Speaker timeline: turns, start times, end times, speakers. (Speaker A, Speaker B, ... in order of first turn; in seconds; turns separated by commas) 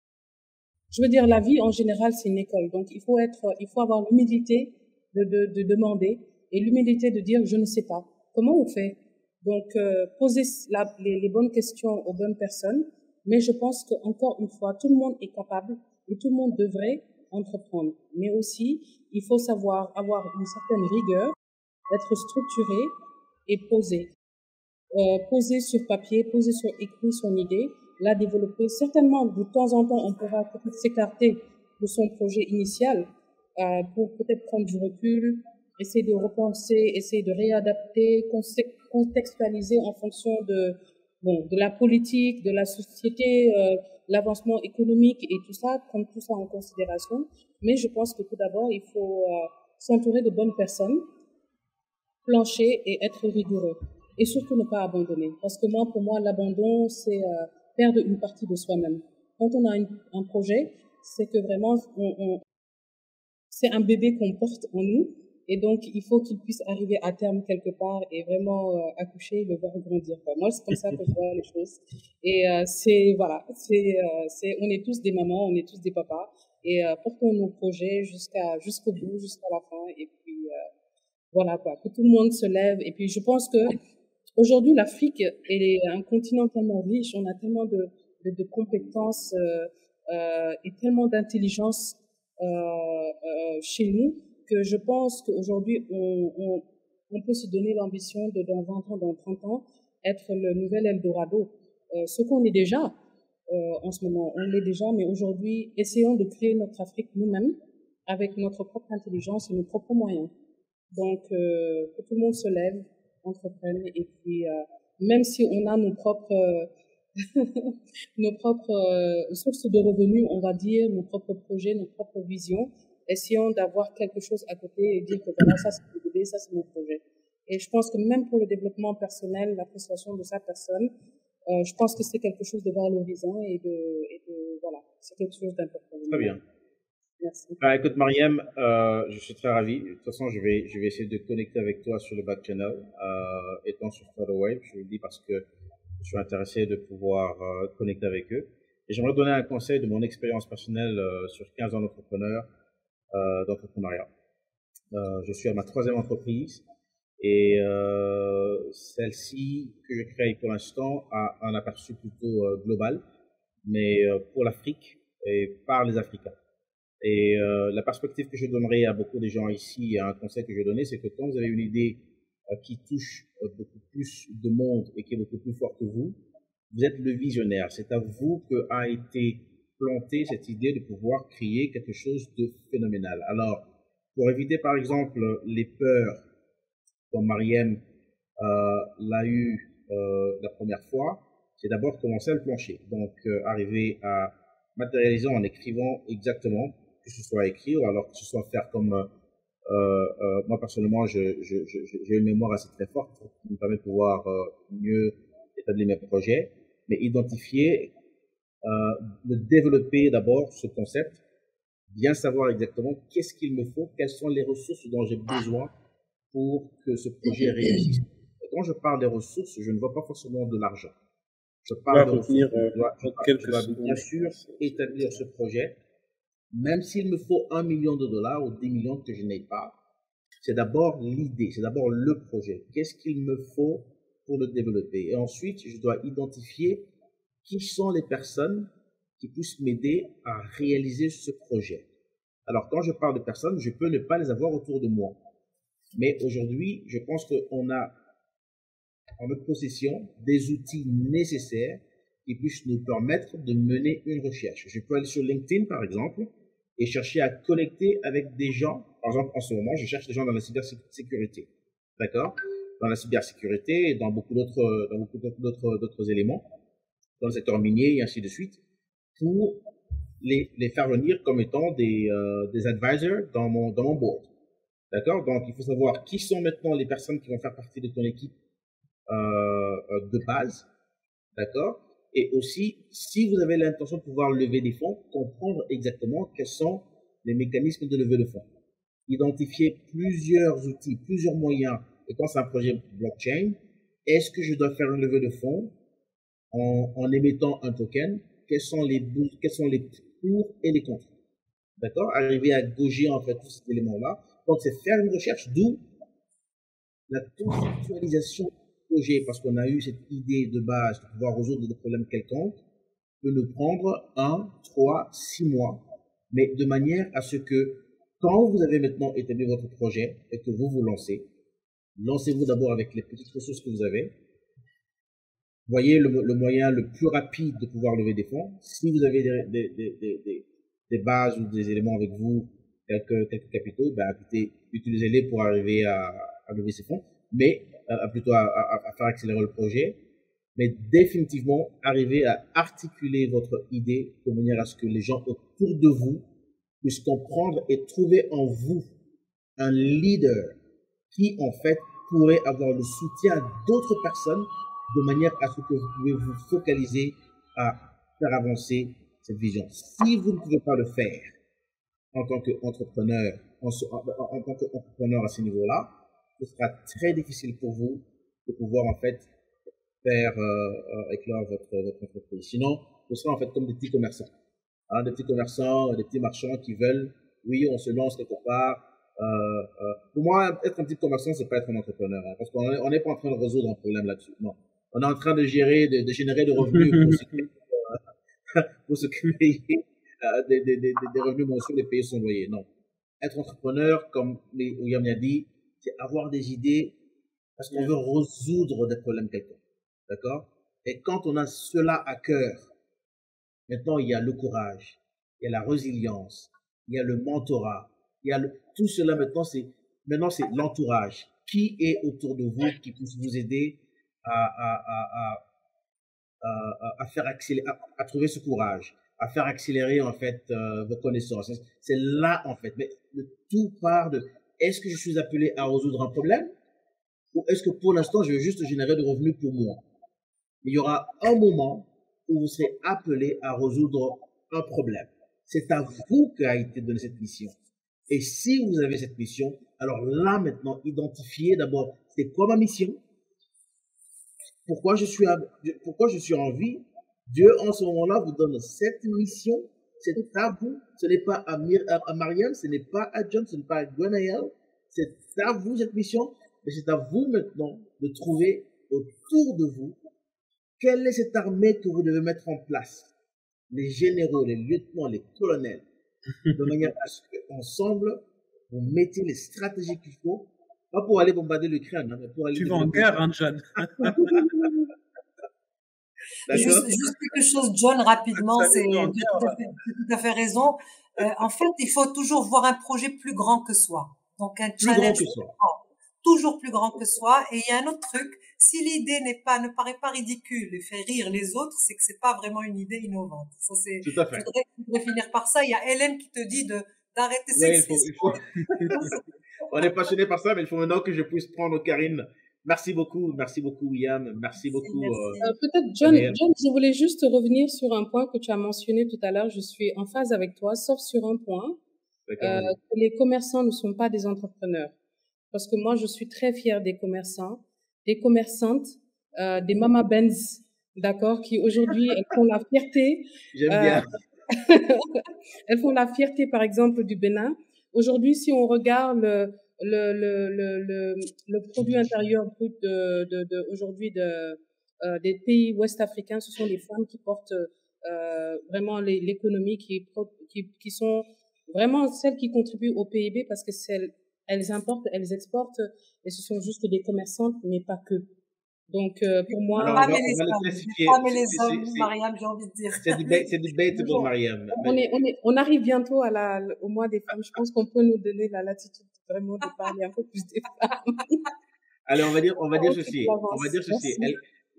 Speaker A: 0.9-21.3, Speaker A: 21.9-22.9, Speaker A: 23.5-24.1, Speaker A: 24.9-51.0, Speaker A: 52.2-62.4, Speaker A: 63.5-80.6, Speaker A: 81.3-83.8, Speaker A: 84.4-102.9, Speaker A: 103.5-110.3, Speaker A: 110.9-130.9, Speaker A: 131.5-136.4, Speaker B: 136.1-136.4, Speaker A: 137.2-137.6, Speaker B: 137.6-145.4, Speaker B: 146.0-152.5, Speaker B: 153.1-154.1, Speaker B: 154.9-156.6, Speaker B: 157.2-163.0, Speaker B: 163.6-166.4, Speaker B: 167.0-176.2, Speaker B: 176.7-186.2, Speaker B: 187.1-187.8, Speaker B: 188.4-199.1, Speaker B: 199.7-207.9, Speaker B: 208.6-211.2, Speaker B: 211.9-215.7, Speaker B: 216.3-220.9, Speaker B: 221.7-225.8, Speaker C: 221.9-224.9, Speaker B: 226.5-229.8, Speaker B: 230.4-236.9, Speaker B: 237.4-241.9, Speaker B: 242.5-245.2, Speaker B: 245.9-247.9, Speaker B: 249.2-266.5, Speaker B: 267.2-268.6, Speaker B: 269.2-269.6, Speaker B: 270.2-274.3, Speaker B: 274.9-278.3, Speaker B: 279.1-280.7, Speaker B: 281.4-288.5, Speaker B: 289.1-295.7, Speaker B: 296.5-301.1, Speaker B: 301.8-305.9, Speaker B: 307.1-312.6, Speaker B: 313.2-321.3, Speaker B: 322.0-324.2, Speaker B: 325.7-340.0, Speaker B: 340.6-346.3, Speaker B: 346.8-348.9, Speaker B: 349.6-350.6, Speaker B: 351.1-361.3, Speaker B: 362.1-369.3, Speaker B: 370.0-374.3, Speaker B: 374.9-388.0, Speaker C: 386.7-387.4, Speaker B: 388.5-392.7, Speaker B: 393.2-397.0, Speaker B: 397.6-402.7, Speaker B: 403.7-415.4, Speaker B: 416.4-426.5, Speaker B: 427.3-429.8, Speaker B: 430.6-437.6, Speaker B: 438.1-443.0, Speaker B: 444.7-460.0, Speaker B: 460.8-463.1, Speaker B: 463.7-465.9, Speaker B: 466.5-473.2, Speaker C: 472.5-474.5, Speaker B: 474.2-474.4, Speaker B: 476.5-476.9, Speaker D: 476.5-499.2, Speaker C: 478.4-479.6, Speaker B: 484.8-485.5, Speaker B: 494.0-494.5, Speaker B: 497.5-499.0, Speaker C: 498.7-499.2, Speaker B: 499.7-505.4, Speaker D: 504.6-505.5, Speaker A: 505.4-511.8, Speaker B: 506.0-506.4, Speaker B: 512.3-512.8, Speaker A: 512.4-515.0, Speaker A: 515.5-548.3, Speaker B: 523.5-524.2, Speaker A: 548.9-550.2, Speaker D: 549.6-553.7, Speaker B: 549.8-552.1, Speaker B: 553.0-555.1, Speaker A: 554.0-561.5, Speaker B: 562.1-564.4, Speaker A: 562.8-564.4